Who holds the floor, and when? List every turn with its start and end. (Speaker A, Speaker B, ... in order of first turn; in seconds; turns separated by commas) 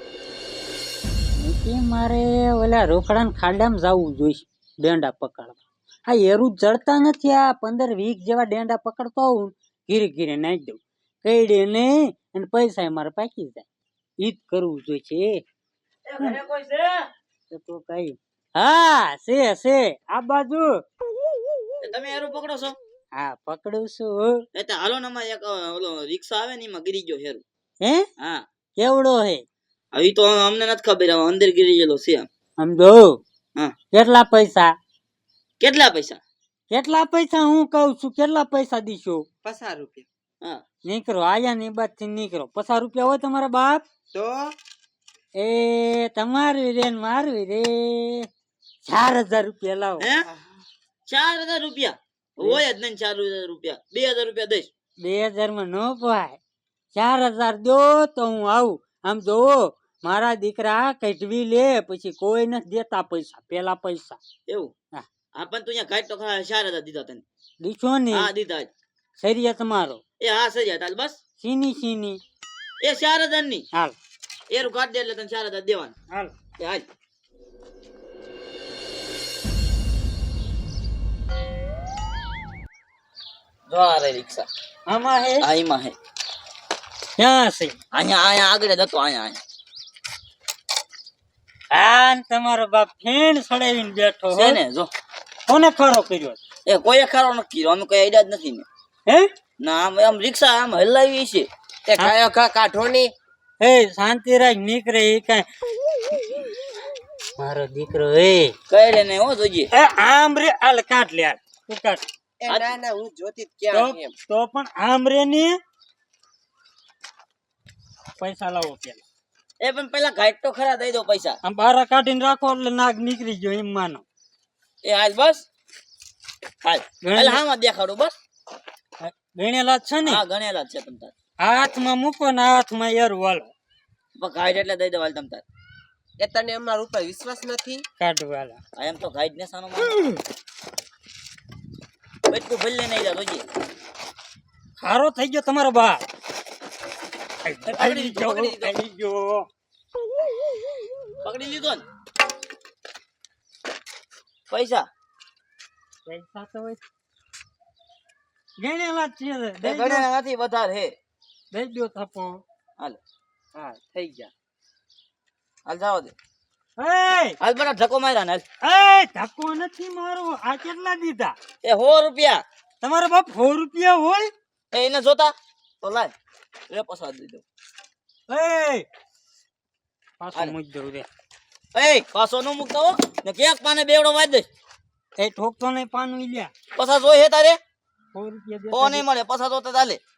Speaker A: 1.4-13.7, Speaker A: 14.2-15.4, Speaker B: 16.1-17.1, Speaker A: 17.5-20.7, Speaker B: 21.8-22.8, Speaker A: 23.1-24.4, Speaker B: 24.5-27.4, Speaker B: 28.2-28.4, Speaker A: 28.8-29.4, Speaker B: 29.9-32.3, Speaker A: 32.6-33.2, Speaker A: 33.9-34.7, Speaker B: 35.6-36.2, Speaker A: 36.7-39.3, Speaker C: 39.5-40.0, Speaker A: 40.9-43.8, Speaker A: 45.4-48.3, Speaker A: 48.9-50.1, Speaker B: 50.0-50.3, Speaker B: 51.1-54.7, Speaker A: 55.0-56.4, Speaker A: 56.9-64.2, Speaker B: 64.5-64.7, Speaker B: 65.3-67.2, Speaker A: 67.6-68.3, Speaker B: 68.1-68.7, Speaker A: 69.2-70.0, Speaker B: 70.2-71.2, Speaker A: 71.4-72.2, Speaker B: 72.8-73.7, Speaker B: 74.5-75.9, Speaker B: 76.6-76.9, Speaker B: 83.7-84.5, Speaker A: 84.9-85.5, Speaker B: 85.4-86.0, Speaker A: 87.2-87.8, Speaker B: 87.9-89.4, Speaker A: 91.7-94.6, Speaker B: 94.3-94.9, Speaker A: 95.5-96.4, Speaker B: 96.7-98.7, Speaker B: 99.6-101.5, Speaker C: 101.9-103.1, Speaker A: 103.6-105.5, Speaker A: 107.4-108.5, Speaker B: 108.7-109.7, Speaker A: 109.7-112.0, Speaker C: 112.4-114.1, Speaker A: 113.7-115.6, Speaker A: 118.2-119.0, Speaker B: 119.6-121.4, Speaker A: 121.4-124.0, Speaker B: 124.8-125.5, Speaker B: 126.6-128.1, Speaker A: 127.0-127.4, Speaker A: 129.0-130.2, Speaker B: 130.1-131.1, Speaker A: 131.4-133.5, Speaker B: 134.2-135.4, Speaker C: 136.2-137.8, Speaker A: 138.0-138.6, Speaker B: 138.7-140.1, Speaker B: 142.3-143.4, Speaker A: 144.8-146.0, Speaker A: 147.4-149.5, Speaker B: 147.7-148.7, Speaker B: 151.2-151.8, Speaker B: 154.5-154.9, Speaker A: 156.1-156.8, Speaker A: 158.6-160.1, Speaker B: 159.6-160.9, Speaker A: 161.5-162.4, Speaker C: 163.6-164.3, Speaker B: 165.7-166.1, Speaker A: 166.8-167.4, Speaker B: 167.4-168.4, Speaker A: 168.6-171.4, Speaker B: 171.6-172.4, Speaker A: 172.8-174.3, Speaker B: 174.7-176.1, Speaker B: 176.7-177.4, Speaker A: 178.3-178.9, Speaker A: 180.2-181.1, Speaker B: 181.8-184.5, Speaker A: 185.2-186.5, Speaker B: 186.8-187.6, Speaker A: 188.1-189.0, Speaker B: 188.7-190.0